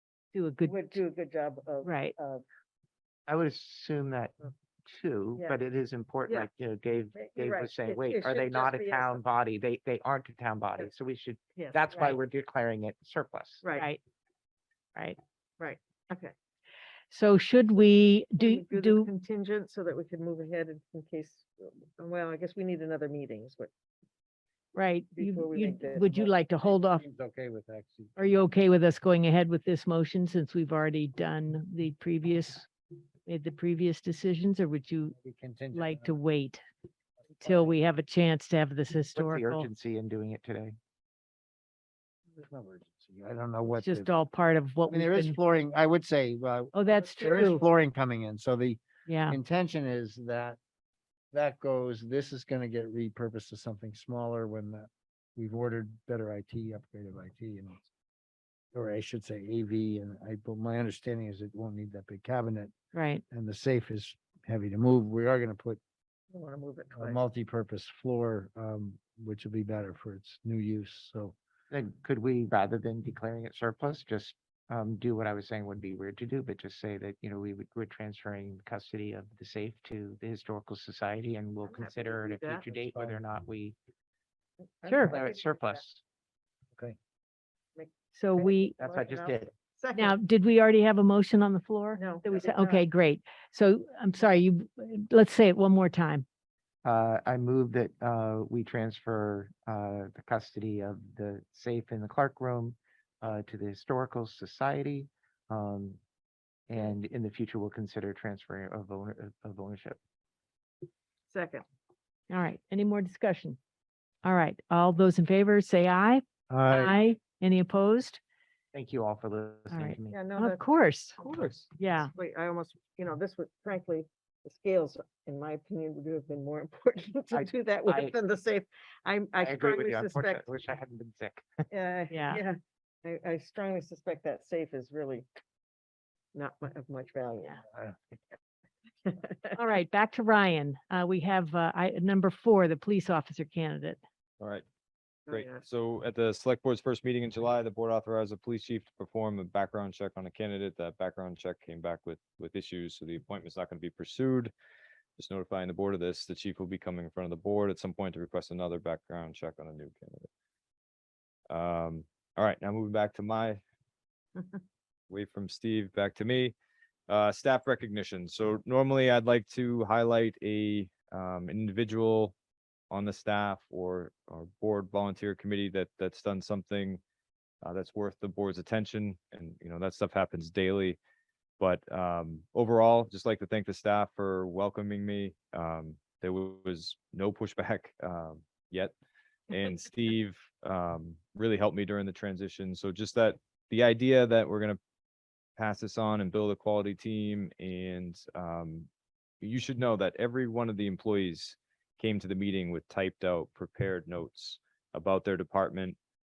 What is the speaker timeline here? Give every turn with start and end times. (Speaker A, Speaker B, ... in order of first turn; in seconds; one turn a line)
Speaker A: 0.3-1.0
Speaker B: 0.7-2.4
Speaker A: 1.8-2.1
Speaker C: 3.3-4.3
Speaker C: 4.9-13.6
Speaker B: 5.4-5.6
Speaker B: 7.1-9.2
Speaker B: 11.5-12.2
Speaker B: 13.6-13.9
Speaker B: 15.6-16.3
Speaker A: 17.1-19.1
Speaker B: 18.4-23.7
Speaker A: 24.7-27.0
Speaker B: 25.2-26.3
Speaker D: 26.1-28.3
Speaker A: 28.2-32.7
Speaker A: 33.3-35.1
Speaker D: 35.2-36.2
Speaker A: 35.7-36.6
Speaker A: 37.4-39.7
Speaker D: 37.4-37.7
Speaker C: 39.1-40.8
Speaker D: 42.4-44.1
Speaker A: 43.7-45.4
Speaker D: 44.9-50.6
Speaker A: 46.7-47.6
Speaker A: 49.1-49.4
Speaker D: 51.3-57.8
Speaker D: 58.7-62.7
Speaker A: 62.9-63.2
Speaker D: 63.3-65.8
Speaker B: 66.3-67.2
Speaker D: 66.9-71.4
Speaker C: 71.7-83.8
Speaker B: 81.6-82.9
Speaker B: 84.8-85.8
Speaker A: 84.9-85.2
Speaker C: 85.0-86.0
Speaker B: 87.8-90.2
Speaker A: 88.1-88.8
Speaker C: 88.8-89.5
Speaker A: 89.9-96.2
Speaker B: 92.0-92.8
Speaker C: 96.8-106.0
Speaker C: 106.7-110.0
Speaker B: 111.3-111.6
Speaker A: 112.3-113.6
Speaker A: 114.2-118.2
Speaker D: 116.5-117.0
Speaker C: 118.7-120.2
Speaker A: 119.7-121.2
Speaker B: 120.1-120.6
Speaker A: 121.8-122.1
Speaker B: 122.0-130.5
Speaker C: 127.3-128.2
Speaker C: 129.4-131.7
Speaker B: 131.7-135.3
Speaker A: 132.1-132.4
Speaker B: 136.3-137.6
Speaker B: 139.1-139.5
Speaker A: 139.6-144.0
Speaker E: 144.4-144.7
Speaker B: 145.3-145.7
Speaker E: 145.3-154.5
Speaker E: 155.2-160.3
Speaker E: 161.5-163.6
Speaker E: 165.1-166.5
Speaker E: 167.1-172.3
Speaker E: 172.9-177.0
Speaker E: 177.6-181.0
Speaker E: 181.6-188.9
Speaker E: 189.5-194.8
Speaker E: 195.6-198.9
Speaker E: 199.4-206.0